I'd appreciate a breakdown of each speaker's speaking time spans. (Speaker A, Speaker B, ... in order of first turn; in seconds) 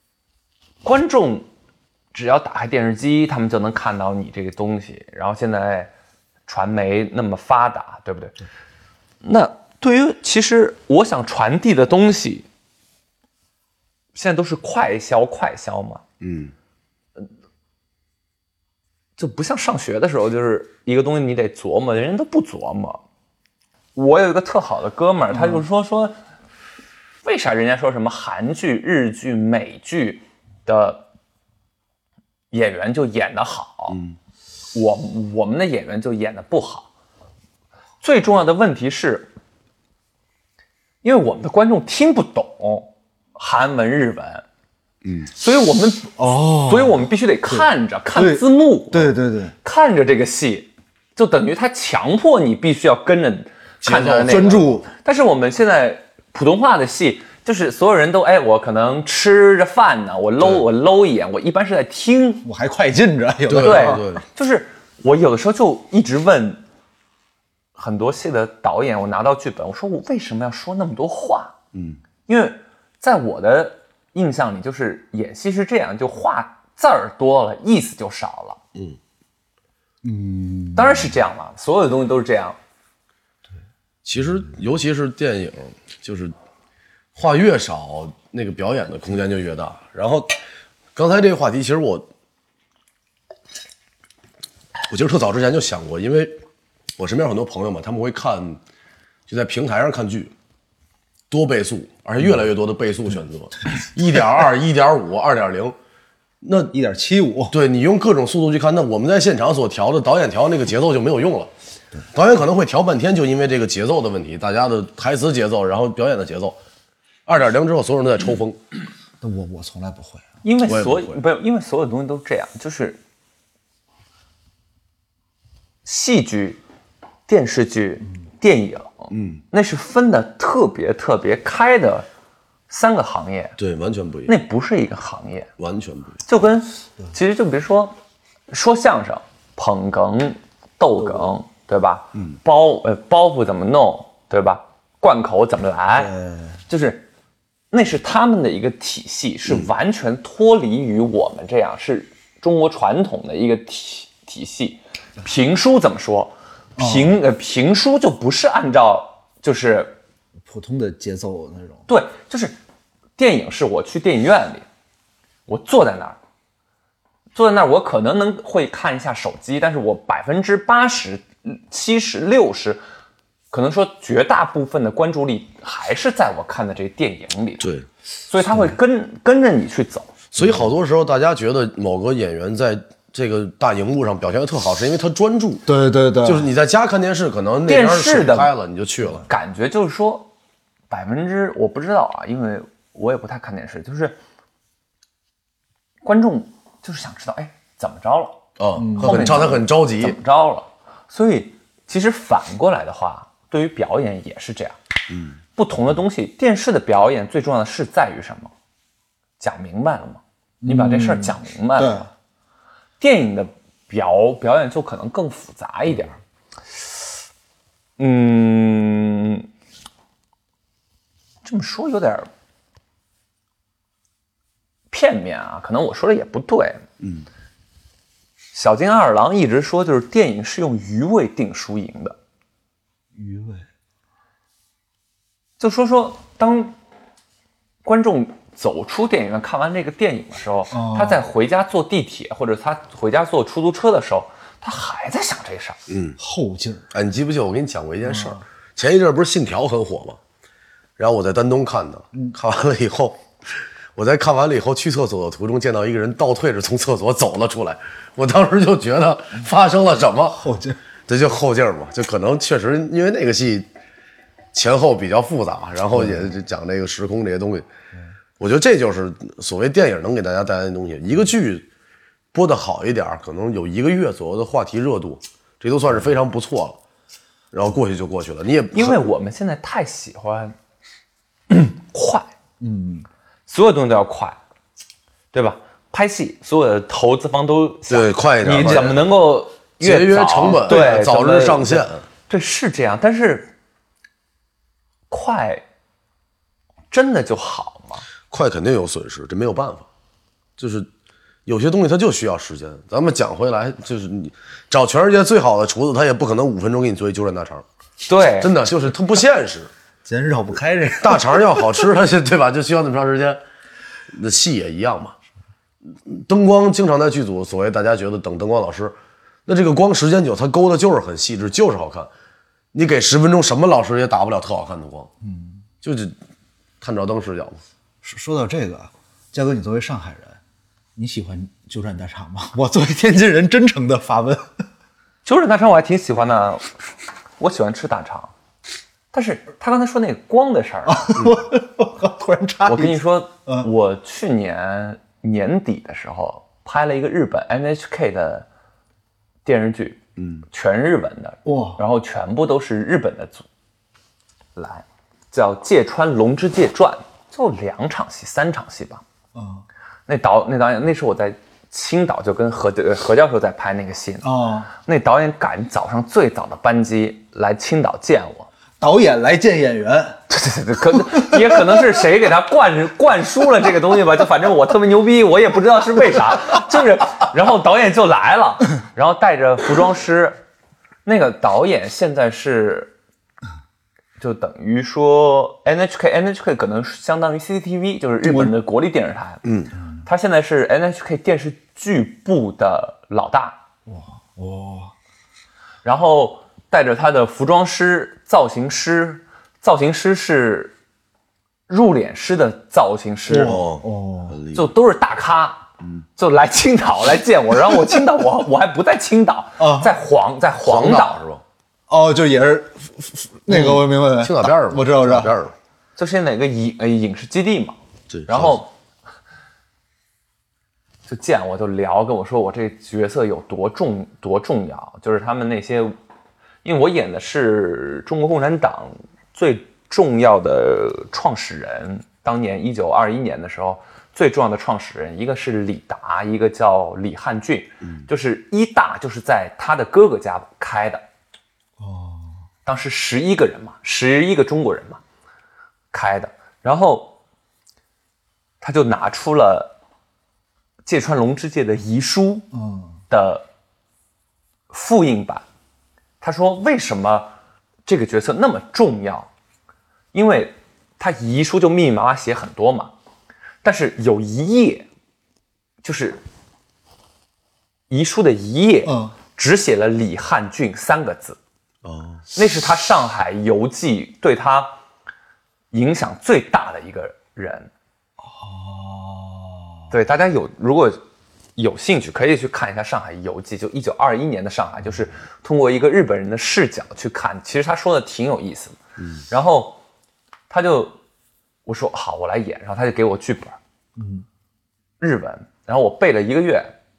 Speaker A: 0.8-1.5, 2.1-5.9, 6.5-8.3, 9.2-12.5, 14.1-16.0, 19.2-23.0, 23.9-26.1, 27.2-31.0, 32.5-34.0, 34.7-36.9, 38.0-39.3, 41.0-44.4, 45.3-62.5, 63.6-66.6, 67.7-71.5, 72.2-78.6, 80.7-82.6, 120.4-123.0, 125.8-126.6, 127.3-132.1, 132.7-133.6, 134.3-135.5, 136.2-137.9, 138.5-146.1, 146.7-147.1, 147.7-160.0, 161.9-162.6, 163.2-164.6, 165.5-166.2, 167.3-172.8, 173.5-177.7, 178.3-180.2, 187.7-188.5, 189.3-190.3, 190.9-194.2, 196.0-198.4, 199.0-204.8, 205.5-208.5, 209.4-212.0, 213.0-216.2, 218.0-219.5, 221.4-222.3, 224.9-226.8, 228.5-232.2, 235.6-236.8, 237.8-245.8, 278.7-280.5, 281.5-282.3, 283.5-284.4, 285.3-293.5, 295.1-295.6, 296.9-298.0, 308.1-308.5, 335.2-336.7, 337.4-338.3, 339.1-341.2, 342.6-348.5, 349.4-353.5, 354.6-359.0, 360.1-368.5, 370.3-380.4, 381.0-382.9, 384.2-389.4, 390.0-393.6, 395.8-400.7, 401.7-403.6, 404.5-405.6, 406.2-411.2, 416.0-418.7, 421.1-425.9, 426.6-441.0, 442.6-445.0, 445.9-447.1, 448.6-449.7, 450.8-452.5, 453.1-453.4, 454.7-455.4, 456.2-457.3, 457.9-459.3, 460.1-462.9, 463.6-464.9, 465.8-466.2, 467.9-471.4, 472.3-474.8, 475.7-477.7, 479.9-481.0, 481.6-488.8, 489.3-489.8, 490.5-490.9, 491.6-493.6, 495.0-496.7
Speaker B: 16.2-16.5, 45.0-45.3, 53.8-54.6, 63.5-64.2, 71.7-72.0, 84.0-86.3, 87.1-90.4, 91.0-92.1, 94.9-96.3, 97.0-98.6, 99.3-100.3, 101.3-105.8, 106.4-106.7, 107.5-111.5, 112.1-116.6, 117.2-118.6, 120.7-121.2, 129.1-129.4, 133.6-134.3, 135.6-136.2, 177.6-177.8, 180.3-185.7, 186.2-189.3, 198.6-200.2, 205.1-205.3, 245.9-246.2, 246.9-250.2, 251.0-260.4, 261.1-263.7, 264.5-267.7, 268.4-271.6, 272.3-276.8, 277.5-279.0, 287.9-289.0, 289.8-292.0, 298.3-299.9, 300.6-300.9, 301.4-307.6, 308.4-309.7, 311.0-313.4, 314.1-315.1, 316.1-322.1, 322.7-325.1, 325.8-326.1, 326.8-327.6, 350.2-350.4, 389.4-389.7, 403.3-404.7, 410.6-411.4, 413.5-415.5, 418.1-418.6, 471.8-472.2
Speaker C: 25.3-25.6, 46.2-49.5, 54.1-54.9, 62.4-64.0, 80.0-81.1, 106.7-107.5, 119.2-120.4, 145.9-146.6, 156.8-157.2, 160.5-161.8, 180.4-180.7, 185.7-186.5, 198.8-199.4, 210.6-212.1, 233.1-233.7, 240.7-241.2, 246.2-246.9, 248.0-248.4, 260.4-260.8, 282.6-283.1, 310.0-311.7, 325.2-325.6, 328.0-330.4, 330.9-334.5, 340.9-343.7, 351.4-351.8, 359.3-359.6, 364.2-364.7, 368.8-370.2, 371.1-371.6, 388.2-388.5, 393.9-394.9, 403.3-404.4, 409.6-409.9, 411.9-415.3, 441.8-442.4, 452.5-452.9, 468.9-469.1, 478.2-479.9, 494.0-494.2